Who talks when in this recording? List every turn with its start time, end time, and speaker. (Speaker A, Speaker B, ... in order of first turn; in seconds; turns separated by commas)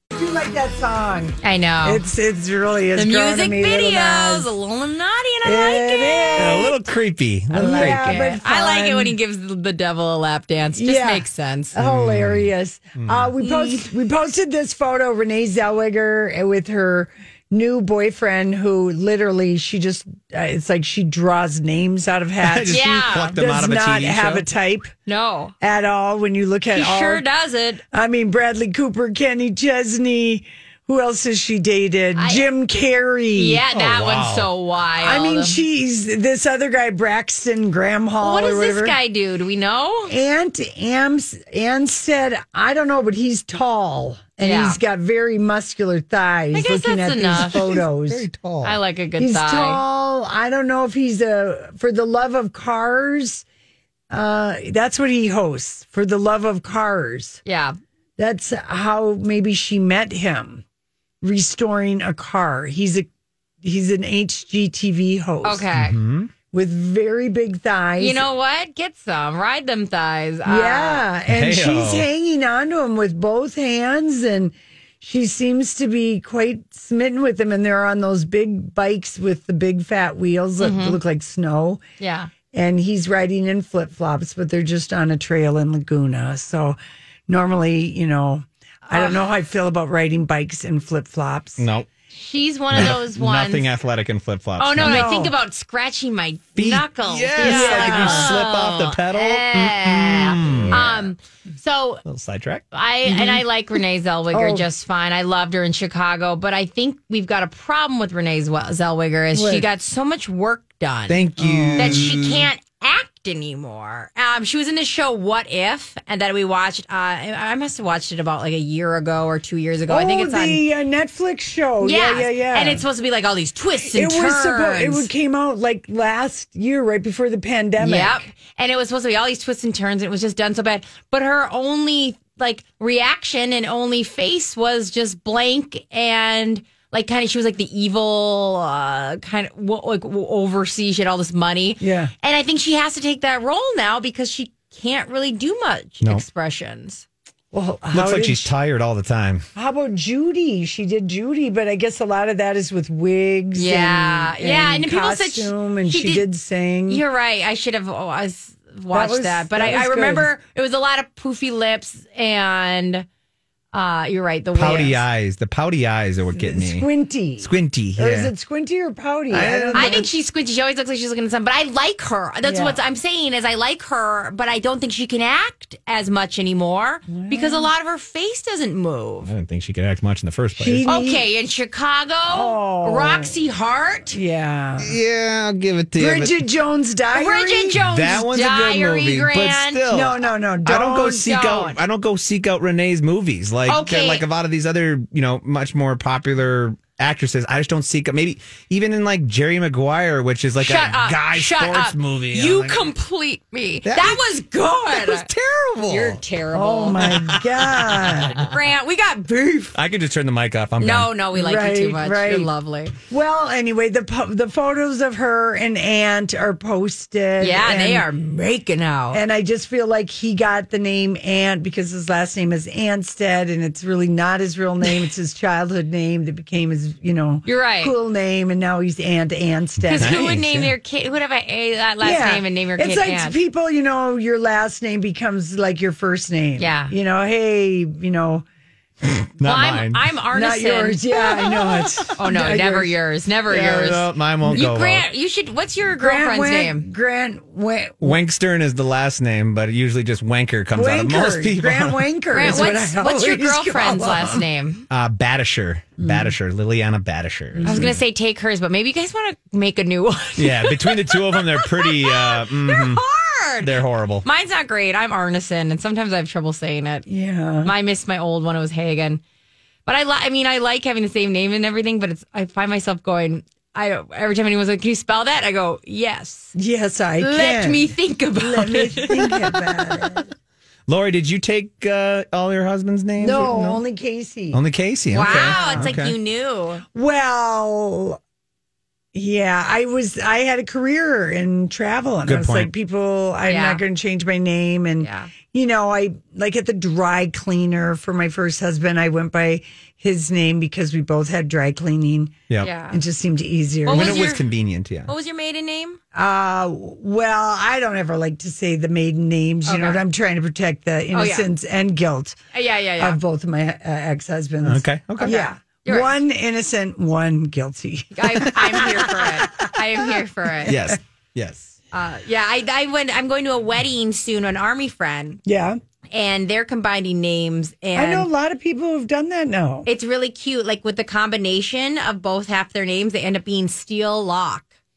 Speaker A: 0.1-4.5, Speaker B: 1.4-2.0, Speaker B: 3.0-6.9, Speaker A: 5.4-6.8, Speaker C: 6.4-8.2, Speaker A: 7.5-9.2, Speaker B: 7.5-11.8, Speaker A: 10.8-24.9, Speaker C: 11.8-13.3, Speaker B: 13.4-13.9, Speaker C: 22.4-24.4, Speaker B: 22.7-23.4, Speaker B: 25.1-25.5, Speaker A: 25.6-27.2, Speaker B: 26.7-27.8, Speaker A: 27.9-33.6, Speaker B: 32.2-32.5, Speaker B: 33.4-35.6, Speaker C: 33.7-34.5, Speaker A: 35.0-39.0, Speaker B: 38.2-40.1, Speaker A: 40.1-48.3, Speaker B: 44.4-44.8, Speaker B: 46.5-47.8, Speaker C: 48.1-48.8, Speaker B: 48.6-49.8, Speaker A: 49.2-53.5, Speaker A: 54.1-57.4, Speaker B: 57.5-57.8, Speaker A: 58.2-60.6, Speaker A: 61.2-63.1, Speaker A: 63.6-65.7, Speaker B: 65.4-66.0, Speaker C: 65.8-66.3, Speaker A: 66.5-68.3, Speaker B: 68.0-71.1, Speaker A: 70.5-81.8, Speaker C: 71.3-72.1, Speaker B: 80.6-81.0, Speaker B: 82.0-82.3, Speaker A: 82.5-86.8, Speaker A: 87.3-91.6, Speaker B: 88.9-89.2, Speaker C: 91.6-91.9, Speaker B: 92.1-93.7, Speaker C: 92.7-95.1, Speaker B: 94.6-102.0, Speaker A: 94.8-95.3, Speaker C: 96.6-100.9, Speaker A: 97.4-98.4, Speaker A: 100.4-101.1, Speaker C: 102.0-102.6, Speaker B: 102.7-111.2, Speaker A: 103.1-103.4, Speaker A: 104.3-104.7, Speaker A: 109.3-109.7, Speaker C: 111.1-112.5, Speaker A: 111.4-112.1, Speaker B: 111.8-120.6, Speaker A: 119.9-122.8, Speaker B: 121.8-125.1, Speaker A: 123.9-128.3, Speaker B: 127.8-147.1, Speaker A: 141.8-142.1, Speaker A: 147.5-148.5, Speaker C: 147.9-149.4, Speaker A: 149.6-157.0, Speaker B: 153.6-156.3, Speaker B: 156.9-163.1, Speaker A: 158.9-160.3, Speaker B: 163.7-165.0, Speaker C: 164.6-166.9, Speaker A: 166.3-170.1, Speaker C: 167.4-168.3, Speaker C: 169.3-170.1, Speaker B: 169.7-179.3, Speaker A: 172.4-172.8, Speaker A: 177.1-177.7, Speaker C: 179.3-180.8, Speaker A: 180.6-181.2, Speaker B: 180.9-184.2, Speaker A: 182.2-183.3, Speaker A: 184.1-185.0, Speaker C: 184.8-186.3, Speaker A: 186.0-187.8, Speaker B: 187.1-189.8, Speaker C: 187.8-202.8, Speaker A: 189.9-191.3, Speaker B: 191.0-191.8, Speaker B: 193.7-194.2, Speaker B: 200.6-205.3, Speaker C: 203.9-204.2, Speaker C: 204.9-206.2, Speaker B: 205.9-207.2, Speaker A: 206.5-208.5, Speaker C: 207.0-208.5, Speaker B: 208.3-209.8, Speaker C: 209.7-211.1, Speaker B: 210.8-212.9, Speaker A: 211.3-212.5, Speaker A: 213.1-218.1, Speaker B: 217.4-219.2, Speaker A: 219.1-230.2, Speaker B: 227.5-227.9, Speaker C: 229.8-230.7, Speaker B: 229.9-233.4, Speaker A: 232.0-238.4, Speaker B: 236.6-236.9, Speaker C: 239.4-240.0, Speaker B: 239.4-246.9, Speaker A: 240.3-242.9, Speaker C: 243.5-245.1, Speaker A: 245.9-248.2, Speaker C: 248.0-252.7, Speaker A: 250.7-254.4, Speaker B: 252.3-254.9, Speaker C: 254.9-257.9, Speaker A: 256.0-256.3, Speaker A: 257.6-258.0, Speaker B: 257.6-267.1, Speaker C: 260.4-263.0, Speaker C: 263.6-264.2, Speaker A: 267.1-267.7, Speaker B: 267.6-269.2, Speaker B: 269.9-276.5, Speaker A: 276.6-280.3, Speaker B: 277.2-280.0, Speaker C: 280.9-283.8, Speaker A: 283.2-284.6, Speaker C: 284.5-286.1, Speaker B: 285.1-286.8, Speaker A: 285.2-286.0, Speaker A: 286.9-288.2, Speaker A: 289.1-304.4, Speaker C: 292.3-292.7, Speaker B: 293.5-293.8, Speaker B: 295.0-295.3, Speaker B: 302.6-303.0, Speaker B: 303.9-304.5, Speaker C: 303.9-305.1, Speaker B: 305.1-306.0, Speaker A: 306.1-312.4, Speaker B: 309.6-310.0, Speaker B: 311.1-311.5, Speaker B: 312.5-313.2, Speaker A: 313.0-320.1, Speaker C: 314.6-315.4, Speaker B: 315.2-316.1, Speaker B: 318.2-320.8, Speaker A: 320.6-320.9, Speaker C: 320.6-321.7, Speaker B: 321.9-325.4, Speaker A: 325.5-325.8, Speaker B: 326.1-328.3, Speaker A: 327.9-329.9, Speaker B: 329.9-334.7